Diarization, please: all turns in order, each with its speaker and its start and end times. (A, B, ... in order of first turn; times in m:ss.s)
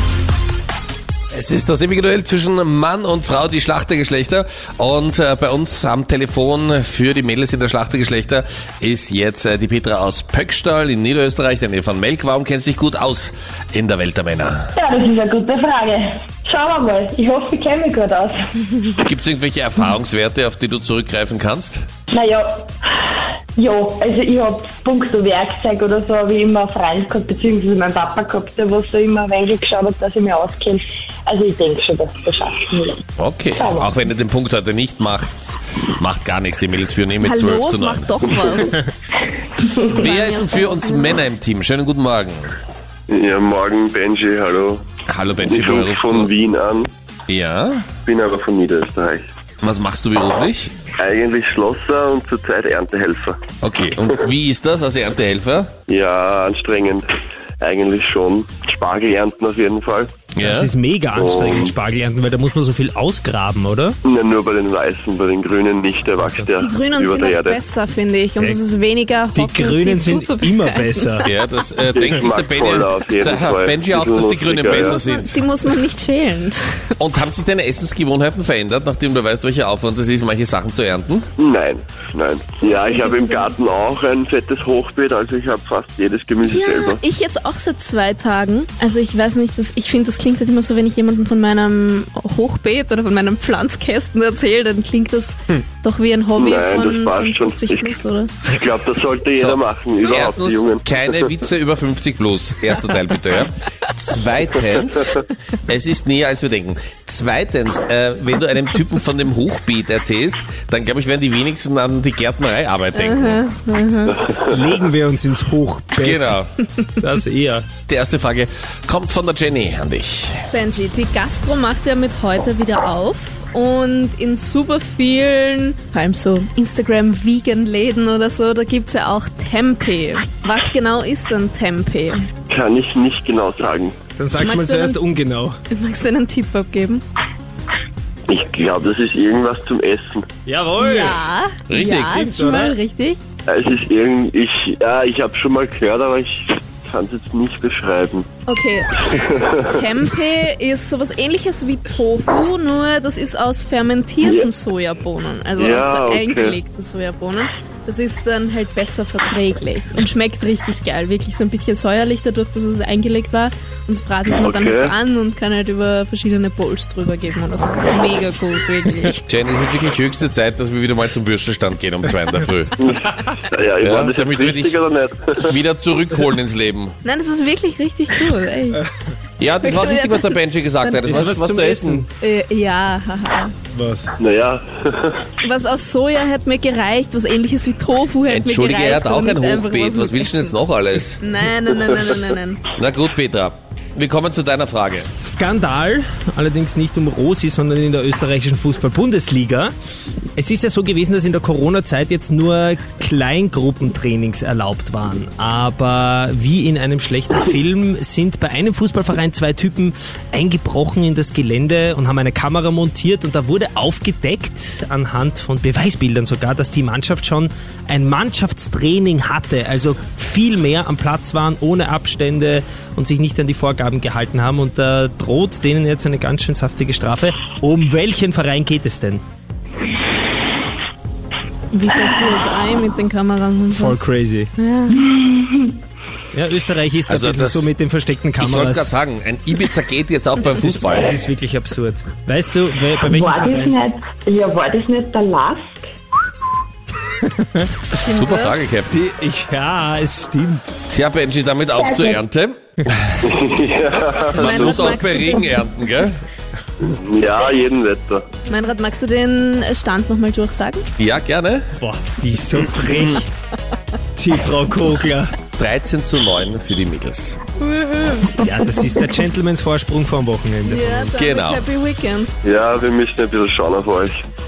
0:01.3-0:14.7 A
0:14.8-0:18.4 B
0:18.9-0:21.9 A
0:22.1-0:33.0 B
0:33.2-0:38.3 A
0:33.5-0:34.0 B
0:37.2-0:38.8 C
0:39.9-0:41.2 C
0:39.9-0:42.6 A
0:43.1-0:44.9 D
0:45.1-0:46.3 A
0:45.4-0:46.9 D
0:47.3-0:47.9 A
0:48.0-0:49.3 D
0:49.6-0:50.7 A
0:51.0-0:53.5 D
0:53.6-0:55.7 A
0:55.9-0:57.1 D
0:57.6-1:00.3 D
1:00.3-1:00.7 A
1:00.4-1:04.0 E
1:01.2-1:01.7 D
1:04.0-1:07.6 D
1:06.2-1:06.5 E
1:06.6-1:11.4 C
1:09.3-1:11.3 E
1:11.2-1:15.4 A
1:11.9-1:15.0 D
1:14.8-1:16.6 C
1:17.0-1:21.3 A
1:21.4-1:27.0 D
1:22.6-1:23.6 C
1:26.4-1:38.3 C
1:36.4-1:41.2 D
1:39.4-1:53.4 A
1:52.9-1:54.3 C
1:54.5-1:56.4 E
1:56.0-1:56.5 A
1:57.0-1:57.7 E
1:57.9-2:00.4 A
2:00.5-2:12.3 C
2:12.5-2:14.0 D
2:14.2-2:15.6 E
2:14.4-2:15.0 C
2:15.7-2:17.0 C
2:18.3-2:20.3 D
2:20.5-2:22.8 E
2:20.8-2:23.2 C
2:21.7-2:22.3 A
2:23.5-2:28.3 D
2:28.5-2:49.2 C
2:29.2-2:29.8 D
2:34.2-2:34.5 D
2:35.6-2:36.6 D
2:44.4-2:44.9 D
2:49.3-2:52.8 A
2:52.8-2:55.5 D
2:53.8-2:54.8 A
2:55.4-2:57.0 A
2:57.0-2:58.8 C
2:59.4-3:02.0 A
2:59.6-3:01.1 C
3:01.0-3:02.1 E
3:02.2-3:03.5 C
3:03.7-3:04.1 E
3:04.2-3:05.2 D
3:05.4-3:10.6 C
3:08.3-3:11.2 A
3:11.2-3:12.7 C
3:12.8-3:15.1 A
3:15.2-3:19.7 E
3:20.4-3:49.2 E
3:51.7-3:54.0 C
3:53.7-3:54.5 E
3:54.6-3:55.1 C
3:55.0-3:55.8 B
3:56.3-3:59.0 E
3:57.1-3:57.7 A
3:58.4-4:01.2 A
4:00.5-4:03.8 E
4:03.1-4:05.9 B
4:07.2-4:07.9 E
4:08.0-4:08.7 C
4:08.1-4:08.9 A
4:08.9-4:10.7 E
4:10.9-4:13.1 A
4:11.7-4:12.2 B
4:13.2-4:14.9 D
4:14.3-4:15.6 C
4:14.3-4:16.2 A
4:16.8-4:18.3 D
4:18.5-4:20.9 C
4:21.0-4:21.7 A
4:21.8-4:23.3 E
4:24.2-4:25.3 E
4:25.6-4:27.4 A
4:27.9-4:28.3 C
4:28.2-4:31.1 E
4:30.6-4:32.3 C
4:31.2-4:31.6 A
4:32.4-4:34.2 D